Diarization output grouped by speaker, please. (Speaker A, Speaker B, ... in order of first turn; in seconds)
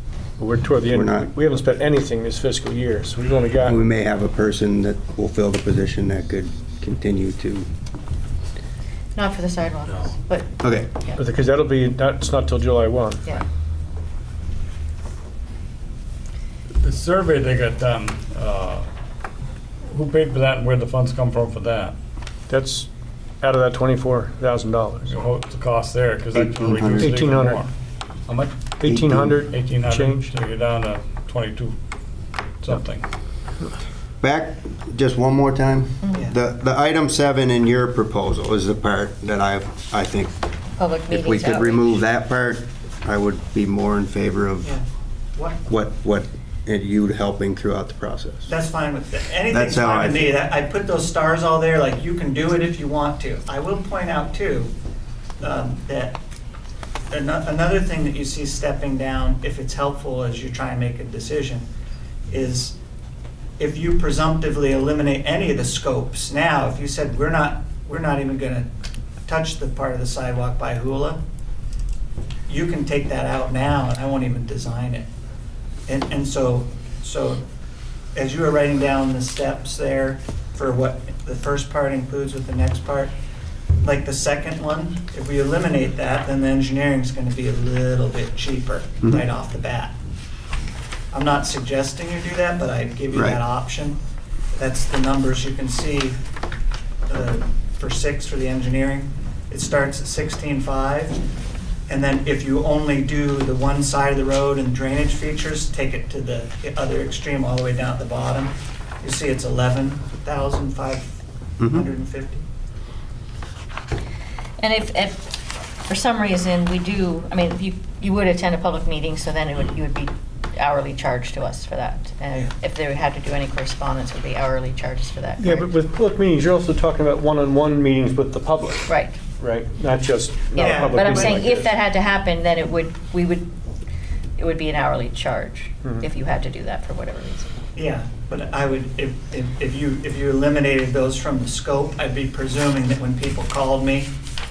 Speaker A: 0.4-3.8, 11.2-13.3, 22.5-22.9, 23.4-25.2, 27.0-27.6, 28.8-30.3, 125.4-131.7
Speaker B: 0.9-1.3, 3.6-7.7, 10.6-10.9, 26.3-27.2, 28.8-29.4, 34.2-40.3, 41.1-44.8, 45.7-48.5, 49.5-50.3, 93.1-93.4, 111.6-111.8
Speaker C: 9.1-11.2, 40.8-41.9, 114.6-115.3, 115.9-125.7, 128.9-129.2, 130.5-133.5, 134.4-137.5
Speaker D: 16.8-18.9, 19.9-21.9, 25.1-27.7, 28.3-28.5, 29.5-31.8, 32.6-33.0
Speaker E: 44.6-45.6, 48.5-54.7, 55.4-56.2, 57.1-61.7, 62.3-62.7, 63.6-68.7, 69.2-71.2, 72.5-75.1, 75.9-77.4, 78.1-83.1, 83.8-89.9, 91.1-94.0, 94.5-96.2, 97.1-101.2, 101.9-111.1, 111.6-112.4, 130.6-131.5, 137.7-144.1